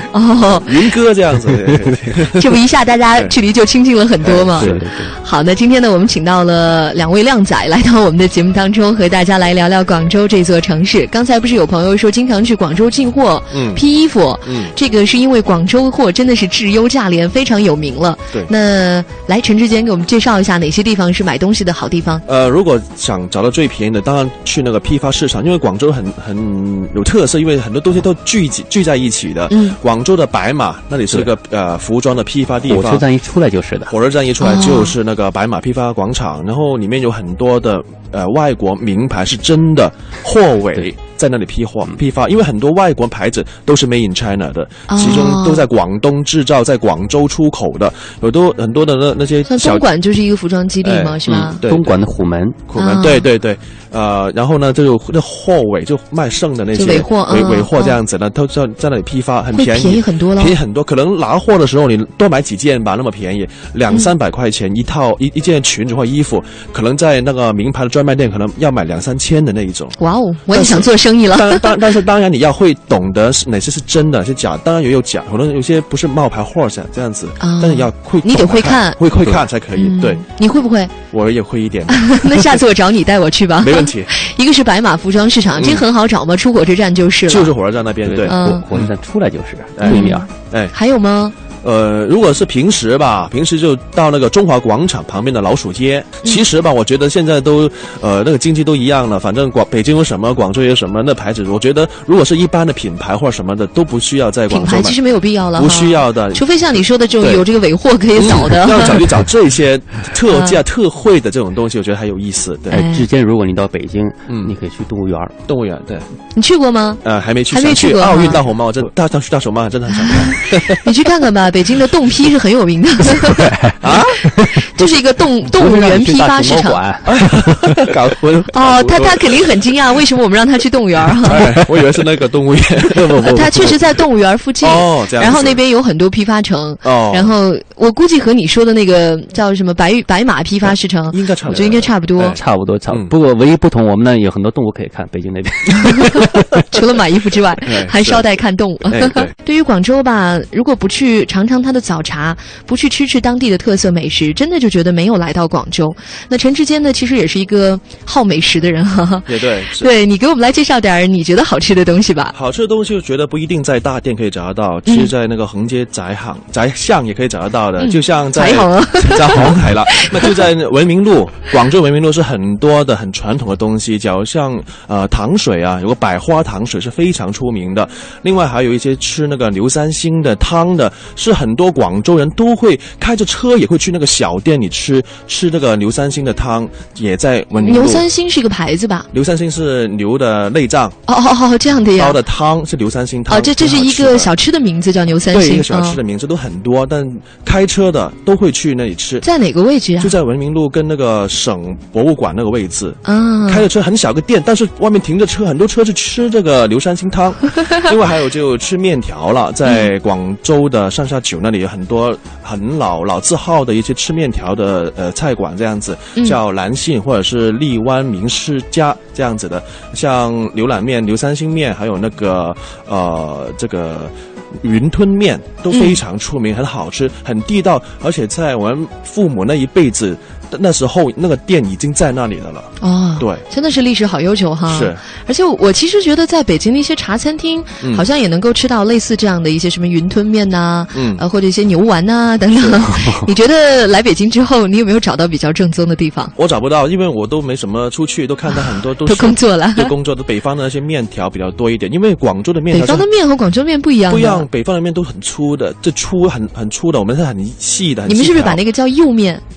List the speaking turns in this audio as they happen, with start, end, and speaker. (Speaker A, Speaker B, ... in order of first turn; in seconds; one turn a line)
Speaker A: 0.1-0.8
Speaker B: 0.4-2.6
Speaker A: 2.3-22.2
Speaker B: 4.2-4.8
Speaker C: 4.6-5.1
Speaker B: 13.5-13.8
Speaker B: 14.4-14.7
Speaker B: 22.3-33.0
Speaker A: 29.5-29.8
Speaker C: 32.7-33.9
Speaker B: 33.9-49.9
Speaker A: 34.4-35.0
Speaker A: 44.9-45.7
Speaker A: 49.5-51.7
Speaker B: 50.8-52.0
Speaker C: 51.3-52.6
Speaker B: 52.7-70.0
Speaker A: 52.8-53.3
Speaker A: 56.7-58.0
Speaker C: 56.8-57.1
Speaker A: 59.5-60.6
Speaker A: 70.0-71.8
Speaker B: 70.5-80.2
Speaker A: 77.4-79.0
Speaker A: 79.7-80.9
Speaker B: 81.1-82.6
Speaker A: 81.9-87.5
Speaker B: 83.6-84.1
Speaker B: 85.5-85.8
Speaker B: 87.3-88.9
Speaker C: 88.0-90.3
Speaker A: 88.2-88.7
Speaker B: 89.8-90.8
Speaker A: 89.8-91.3
Speaker B: 91.6-105.0
Speaker A: 104.5-109.1
Speaker B: 105.5-107.5
Speaker B: 108.2-112.8
Speaker A: 110.3-110.6
Speaker C: 112.7-115.3
Speaker A: 112.7-113.1
Speaker B: 114.3-114.5
Speaker B: 115.5-116.1
Speaker A: 116.3-118.4
Speaker B: 117.0-120.9
Speaker A: 120.2-123.5
Speaker B: 123.8-124.3
Speaker A: 124.4-126.8
Speaker C: 125.5-127.8
Speaker B: 127.1-129.6
Speaker A: 128.5-131.5
Speaker B: 131.2-133.7
Speaker C: 132.9-133.8
Speaker A: 133.3-142.4
Speaker B: 134.6-135.6
Speaker B: 136.8-137.3
Speaker B: 141.1-143.1
Speaker C: 142.4-146.5
Speaker A: 146.7-162.3
Speaker B: 147.6-148.3
Speaker B: 148.8-149.3
Speaker B: 159.3-159.9
Speaker B: 162.3-188.1
Speaker A: 164.9-165.1
Speaker A: 167.8-170.3
Speaker A: 187.6-189.1
Speaker B: 189.1-191.0
Speaker A: 191.1-192.2
Speaker B: 192.0-194.3
Speaker A: 193.3-196.0
Speaker B: 195.3-199.3
Speaker A: 199.2-200.2
Speaker B: 200.0-233.4
Speaker A: 203.0-203.7
Speaker A: 225.7-226.0
Speaker A: 232.8-246.3
Speaker B: 234.7-235.0
Speaker B: 240.9-241.2
Speaker B: 242.5-242.9
Speaker B: 246.3-253.1
Speaker A: 249.0-249.9
Speaker A: 252.7-254.5
Speaker B: 254.1-258.6
Speaker A: 258.1-259.4